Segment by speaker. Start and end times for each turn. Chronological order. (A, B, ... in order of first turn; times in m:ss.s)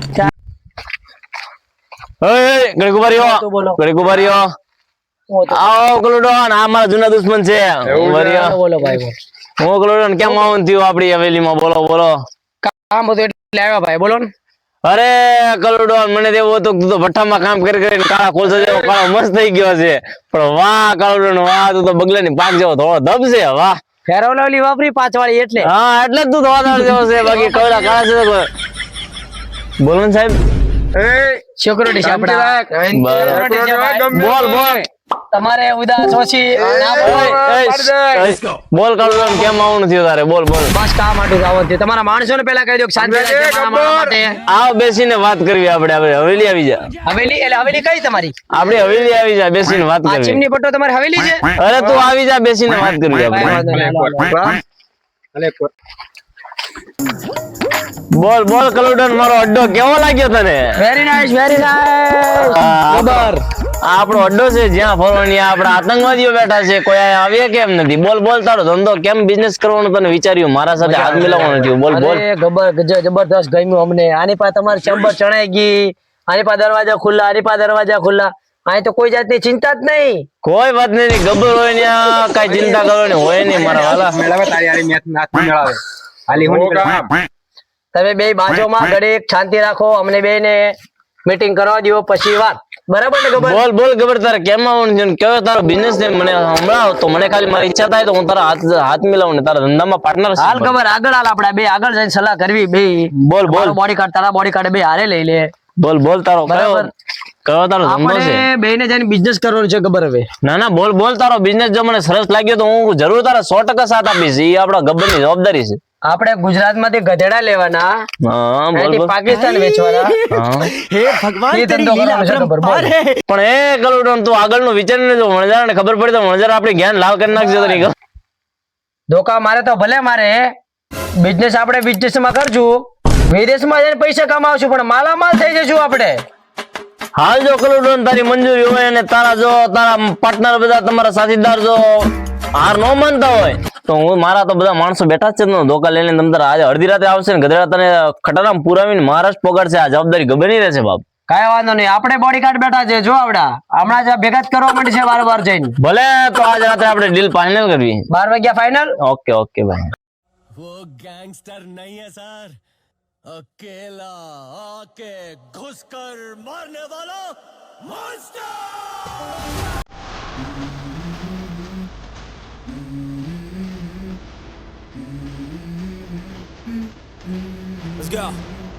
0:02.2-0:04.5 A
0:03.1-0:03.8 B
0:05.3-0:05.7 B
0:05.5-0:08.5 A
0:08.0-0:09.2 B
0:09.6-0:12.2 A
0:12.6-0:14.3 B
0:14.8-0:23.8 A
0:24.1-0:25.7 B
0:25.6-0:28.5 A
0:29.8-0:30.4 A
0:31.0-0:31.4 C
0:31.6-0:34.3 B
0:32.0-0:34.9 C
0:32.9-0:33.4 A
0:34.1-0:34.8 A
0:35.3-0:37.4 B
0:36.6-0:38.4 C
0:36.9-0:40.7 A
0:40.7-0:44.4 B
0:43.0-0:44.2 C
0:44.5-0:46.8 A
0:47.1-0:48.3 B
0:48.5-0:50.4 A
0:50.0-0:51.5 B
0:51.6-0:53.6 A
0:51.8-0:52.0 C
0:53.2-0:54.6 B
0:53.5-0:54.5 C
0:55.4-0:55.7 C
0:58.2-1:00.6 A
1:00.8-1:03.4 B
1:02.4-1:03.3 A
1:03.9-1:12.2 A
1:10.8-1:20.2 B
1:20.4-1:24.2 A
1:23.5-1:27.2 C
1:26.3-1:26.9 B
1:27.9-1:30.8 B
1:31.3-1:33.6 B
1:33.4-1:40.7 A
1:40.4-1:45.5 B
1:43.2-1:43.8 A
1:45.8-1:46.9 A
1:46.5-1:46.9 B
1:47.5-1:48.4 A
1:47.8-1:50.3 B
1:50.4-1:55.8 A
1:56.1-1:57.9 B
1:58.2-1:59.2 A
1:58.8-2:00.2 B
1:59.3-2:03.2 D
2:00.3-2:00.7 A
2:01.5-2:02.9 B
2:03.3-2:07.9 A
2:09.1-2:10.4 B
2:11.2-2:16.2 B
2:17.2-2:31.0 A
2:31.3-2:35.8 B
2:35.8-2:38.0 A
2:38.1-2:39.0 B
2:39.0-2:39.9 A
2:40.6-2:42.6 D
2:43.3-2:49.2 D